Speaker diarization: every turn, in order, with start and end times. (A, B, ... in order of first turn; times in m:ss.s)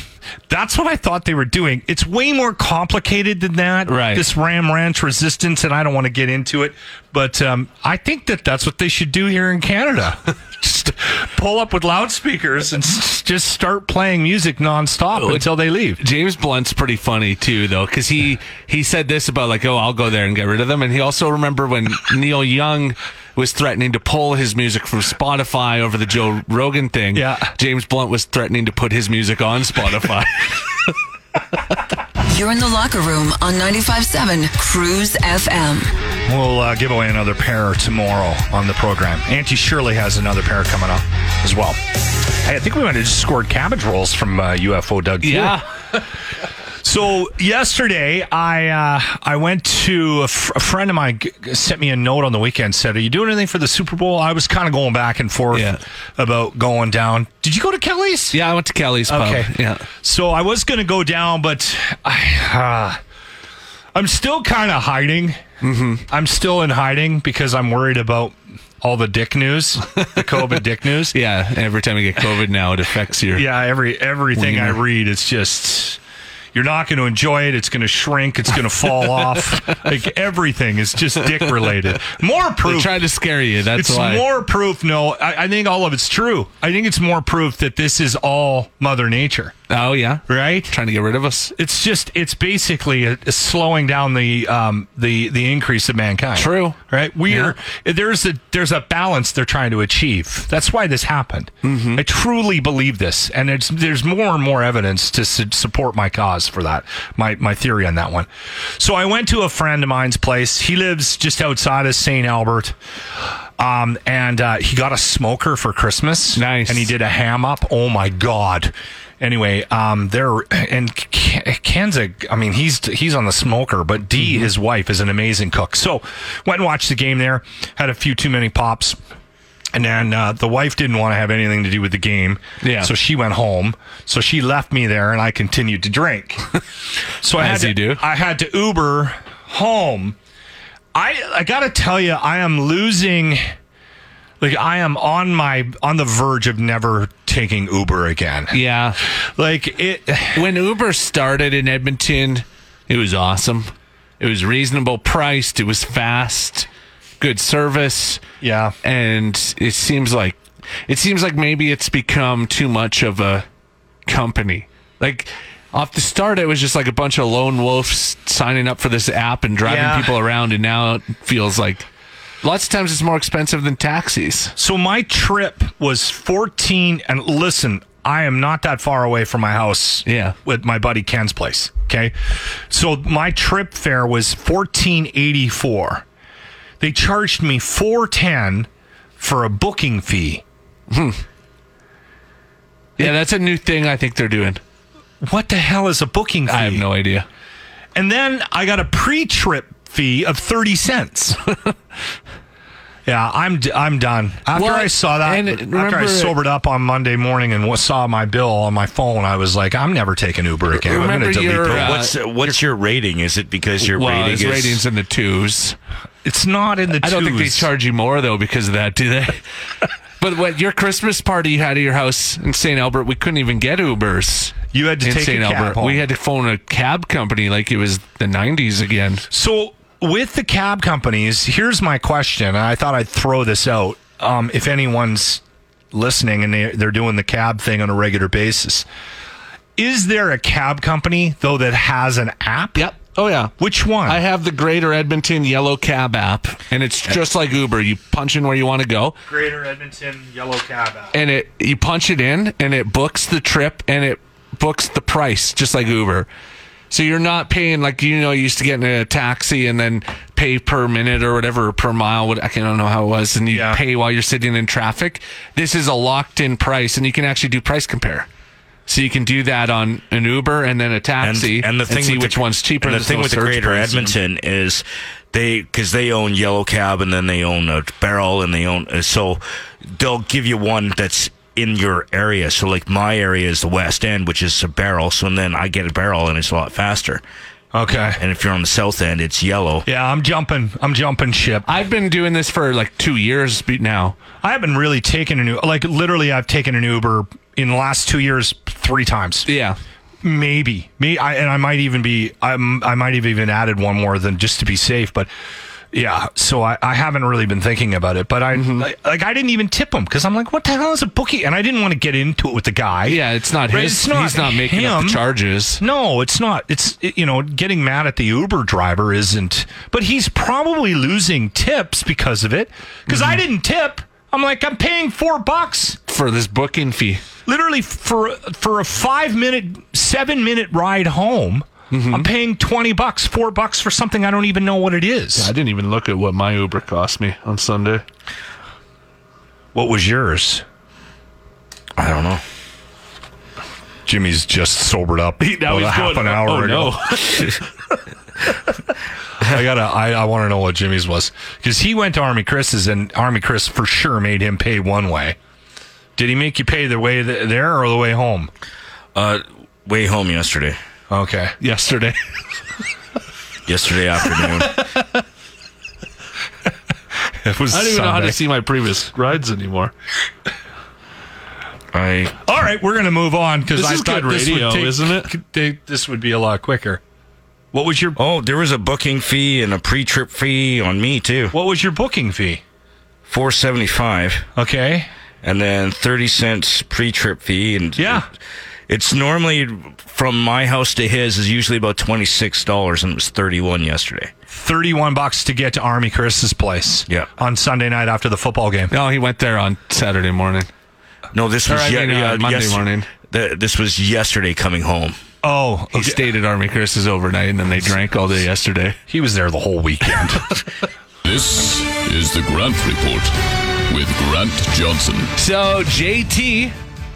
0:00.5-0:16.0 A
0:03.9-0:04.3 B
0:15.2-0:30.6 B
0:27.1-0:27.5 A
0:32.2-0:35.9 C
0:36.3-0:41.8 A
0:42.4-0:45.6 A
0:45.2-0:46.0 B
0:46.8-0:58.4 A
0:55.5-0:55.8 B
0:58.3-0:59.9 B
0:59.1-1:03.0 A
1:03.9-1:05.4 A
1:05.6-1:06.0 B
1:06.1-1:11.2 A
1:10.0-1:10.6 B
1:11.1-1:13.5 B
1:13.3-1:16.0 A
1:14.4-1:14.8 B
1:16.5-1:23.1 A
1:22.6-1:24.3 B
1:23.8-1:29.6 A
1:29.7-1:31.5 B
1:30.3-1:30.7 A
1:31.6-1:52.8 A
1:36.4-1:36.8 B
1:37.3-1:37.6 B
1:41.6-1:42.0 B
1:53.6-2:09.0 A
1:56.4-1:56.9 B
2:04.2-2:04.5 B
2:09.7-2:16.5 A
2:12.6-2:12.9 B
2:17.2-2:20.2 A
2:17.3-2:18.0 B
2:21.0-2:23.4 A
2:24.4-2:28.6 A
2:28.5-2:29.0 B
2:29.2-2:30.5 A
2:30.3-2:36.7 B
2:37.2-2:38.2 B
2:38.4-2:38.8 A
2:38.8-2:43.4 B
2:44.1-2:51.9 B
2:49.6-2:50.2 A
2:52.4-2:54.6 B
2:54.6-3:06.0 A
3:00.0-3:00.4 B
3:06.8-3:10.4 A
3:10.9-3:11.2 B
3:13.0-3:14.6 B
3:15.2-3:16.8 A
3:16.5-3:17.3 B
3:18.0-3:21.4 A
3:23.1-3:32.0 A
3:24.5-3:26.4 B
3:30.8-3:32.2 B
3:31.6-3:34.8 D
3:33.8-3:35.8 B
3:36.2-3:37.7 A
3:37.0-3:39.4 B
3:40.2-3:49.2 B
3:44.7-3:46.0 A
3:49.3-3:58.9 A
3:59.8-4:02.9 A
4:02.8-4:03.5 B
4:03.6-4:04.2 A
4:04.0-4:09.2 B
4:09.3-4:11.2 A
4:11.1-4:16.3 B
4:16.9-4:28.3 B
4:23.5-4:23.8 A
4:28.9-4:34.2 B
4:31.2-4:47.2 D
4:47.7-4:48.2 A
4:48.2-4:49.9 D
4:49.9-4:51.7 A
4:51.7-4:54.2 B
4:54.4-4:59.5 A
4:59.5-4:59.8 B
5:00.2-5:05.3 A
5:05.9-5:15.2 A
5:08.5-5:08.9 B
5:13.1-5:15.8 B
5:15.8-5:26.0 A
5:23.1-5:23.4 B
5:26.1-5:27.2 B
5:27.5-5:35.5 A
5:31.9-5:32.3 B
5:35.4-5:38.0 B
5:39.7-5:40.6 A
5:42.0-5:42.4 D
5:44.1-5:47.4 A
5:45.4-5:47.5 B
5:49.4-5:55.4 A
5:56.2-5:58.5 A
5:59.2-6:00.8 D
6:01.1-6:01.6 A
6:01.6-6:02.2 B
6:03.7-6:04.8 D
6:04.8-6:05.2 B
6:07.4-6:08.4 A
6:07.7-6:09.9 B
6:11.9-6:12.4 D
6:12.5-6:17.0 A
6:13.8-6:15.3 B
6:17.7-6:18.2 A
6:18.2-6:21.5 D
6:21.5-6:22.6 A
6:23.3-6:24.5 D
6:24.6-6:25.1 A
6:25.4-6:28.3 D
6:28.0-6:28.3 A
6:28.9-6:34.3 D
6:34.5-6:38.9 A
6:38.9-6:40.7 B
6:41.3-6:45.2 D
6:41.7-6:43.1 B
6:45.4-6:46.2 A
6:45.9-6:49.0 B
6:49.1-6:50.6 A
6:51.2-6:53.4 E
6:53.9-6:55.3 E
6:55.4-6:56.7 B